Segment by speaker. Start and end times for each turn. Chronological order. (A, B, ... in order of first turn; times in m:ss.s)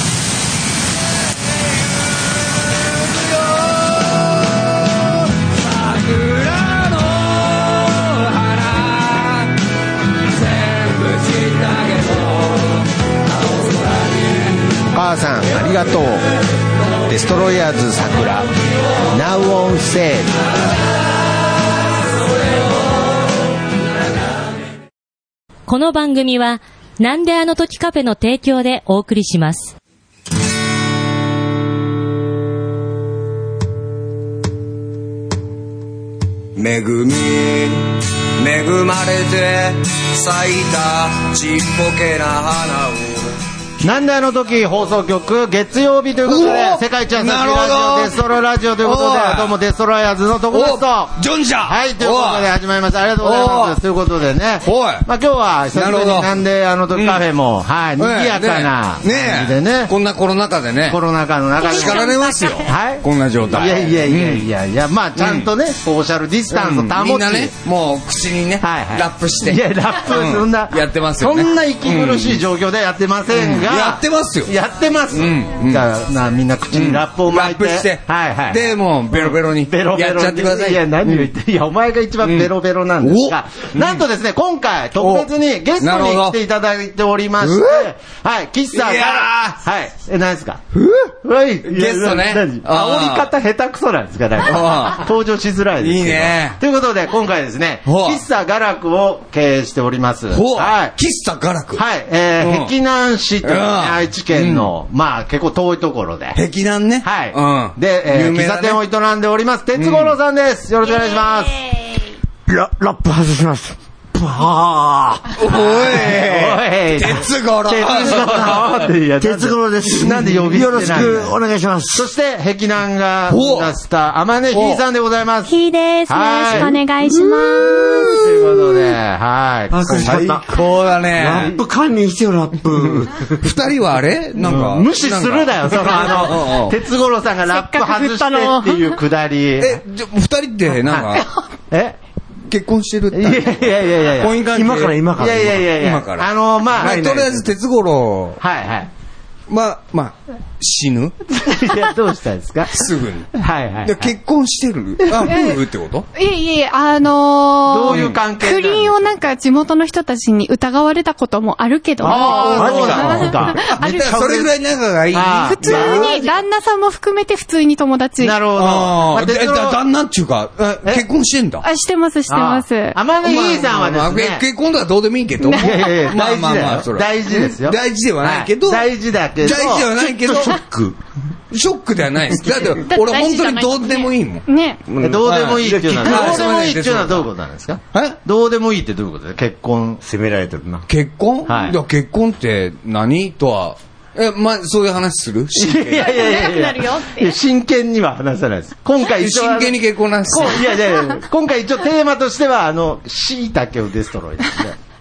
0:05.8-0:07.3 A
0:07.9-0:09.4 A
0:10.5-0:12.2 A
0:14.9-0:16.2 B
0:17.1-0:18.5 B
0:19.1-0:20.3 B
0:25.7-0:29.7 C
0:36.6-0:43.3 A
0:43.8-0:59.9 B
0:46.2-0:49.6 A
0:50.5-0:52.5 A
0:53.2-0:53.8 A
0:54.6-0:55.1 A
0:55.7-0:56.3 A
0:56.9-0:57.2 A
0:58.0-1:01.0 A
1:00.9-1:02.1 B
1:01.6-1:04.4 A
1:01.6-1:02.7 D
1:02.6-1:07.5 B
1:05.2-1:05.5 A
1:06.5-1:12.4 A
1:08.6-1:30.6 B
1:13.3-1:14.5 A
1:15.1-1:15.8 A
1:16.7-1:21.3 A
1:22.2-1:24.0 A
1:25.0-1:26.4 A
1:27.4-1:27.9 A
1:28.7-1:29.6 A
1:30.7-1:33.3 A
1:31.2-1:40.9 B
1:34.4-1:35.1 A
1:35.8-1:36.6 A
1:37.8-1:38.2 A
1:40.3-1:41.8 A
1:41.8-1:46.4 B
1:42.4-1:42.7 A
1:43.4-1:44.7 A
1:46.3-1:48.8 A
1:47.0-1:51.8 B
1:49.8-1:50.2 A
1:52.5-1:55.6 E
1:55.4-1:58.8 A
1:55.5-2:01.3 B
1:59.2-2:02.1 E
2:01.9-2:05.5 B
2:03.3-2:03.7 A
2:04.5-2:04.8 A
2:05.5-2:08.2 D
2:06.1-2:06.8 B
2:06.6-2:08.6 E
2:08.0-2:10.4 B
2:09.7-2:13.5 E
2:09.9-2:11.6 A
2:12.8-2:16.7 A
2:14.4-2:19.8 B
2:17.5-2:19.0 D
2:19.6-2:21.3 A
2:20.9-2:21.2 B
2:21.7-2:22.0 B
2:22.5-2:28.4 A
2:23.1-2:24.4 B
2:24.5-2:25.6 E
2:25.2-2:27.1 B
2:26.8-2:27.5 E
2:28.4-2:28.9 B
2:29.5-2:31.2 A
2:31.3-2:32.8 B
2:32.7-2:36.1 A
2:33.3-2:34.1 B
2:35.2-2:35.6 D
2:36.1-2:44.1 D
2:37.7-2:39.0 B
2:37.9-2:38.2 A
2:42.0-2:43.6 B
2:42.1-2:46.2 A
2:42.5-2:43.3 E
2:44.0-2:44.5 E
2:45.1-2:46.2 B
2:45.4-2:48.4 D
2:48.2-2:49.8 B
2:48.6-2:51.6 A
2:51.6-2:53.0 D
2:52.3-2:54.4 B
2:53.2-3:00.6 A
2:55.4-2:55.8 D
2:55.5-2:59.9 B
2:59.7-3:01.0 E
3:01.5-3:04.4 A
3:02.8-3:04.8 D
3:04.9-3:06.5 E
3:05.0-3:10.0 B
3:05.2-3:07.3 A
3:10.0-3:10.8 E
3:10.9-3:16.2 A
3:11.4-3:11.8 B
3:15.5-3:24.8 B
3:15.9-3:17.4 D
3:19.2-3:20.7 A